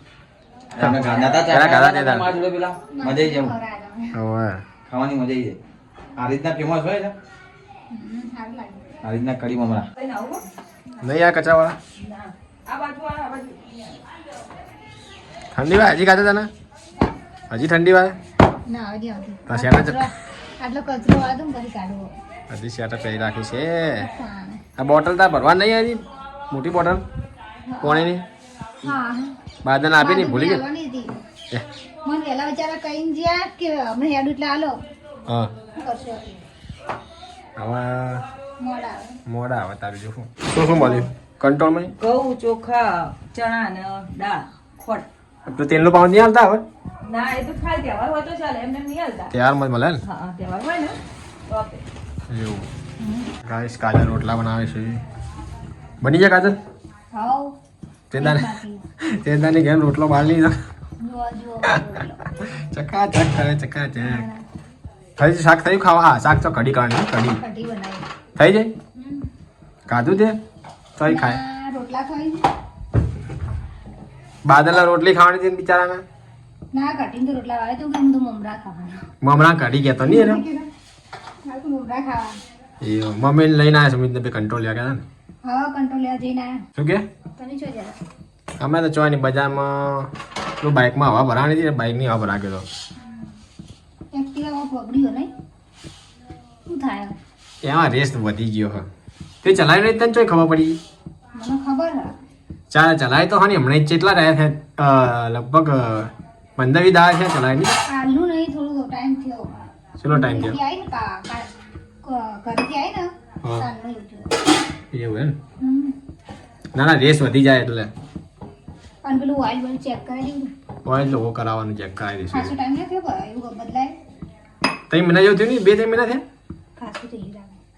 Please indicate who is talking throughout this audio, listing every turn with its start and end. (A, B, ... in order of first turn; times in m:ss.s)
0:00.7-0:03.6 A
0:00.8-0:02.3 B
0:00.9-0:01.4 C
0:02.9-0:04.2 C
0:04.1-0:04.6 B
0:04.9-0:05.6 A
0:06.2-0:07.2 A
0:07.9-0:08.9 C
0:09.0-0:09.9 A
0:10.0-0:10.4 D
0:11.0-0:11.8 B
0:12.0-0:14.0 D
0:15.6-0:16.5 B
0:17.5-0:18.2 B
0:18.7-0:22.1 C
0:19.5-0:20.1 B
0:22.5-0:24.1 B
0:24.0-0:24.6 C
0:24.8-0:27.0 B
0:27.7-0:28.1 C
0:27.8-0:28.2 B
0:28.8-0:29.4 C
0:29.6-0:30.6 B
0:30.0-0:31.1 C
0:32.0-0:34.8 C
0:35.3-0:35.5 B
0:35.7-0:36.4 C
0:37.6-0:38.2 B
0:38.6-0:39.1 C
0:39.3-0:41.9 B
0:40.7-0:41.0 C
0:42.0-0:45.1 D
0:45.5-0:46.6 B
0:47.0-0:49.3 D
0:49.3-0:50.0 B
0:50.0-0:51.8 D
0:52.3-0:52.7 B
0:53.4-0:55.0 B
0:56.0-0:56.6 B
0:57.1-0:57.6 C
0:58.1-1:00.6 B
0:58.1-0:58.8 C
1:01.0-1:02.2 C
1:02.3-1:04.3 B
1:04.0-1:04.4 C
1:05.2-1:07.4 B
1:07.4-1:08.0 C
1:08.4-1:08.7 B
1:09.0-1:09.3 C
1:09.9-1:10.4 B
1:11.0-1:11.4 B
1:11.1-1:12.5 C
1:14.4-1:16.0 B
1:16.7-1:19.0 C
1:19.2-1:20.4 B
1:20.0-1:20.7 C
1:21.5-1:22.4 C
1:22.8-1:25.0 B
1:25.4-1:26.6 C
1:26.8-1:27.0 B
1:27.4-1:28.0 C
1:28.6-1:32.6 B
1:34.1-1:35.3 C
1:36.7-1:37.2 C
1:37.6-1:38.8 B
1:39.4-1:40.8 B
1:41.4-1:42.1 C
1:42.7-1:47.7 B
1:47.9-1:51.5 C
1:50.0-1:50.6 B
1:52.0-1:54.3 C
1:54.9-1:55.4 B
1:55.6-1:55.9 C
1:56.8-1:57.9 B
1:59.0-2:00.5 C
2:00.8-2:02.5 B
2:02.3-2:04.0 C
2:04.9-2:06.2 B
2:06.8-2:07.6 C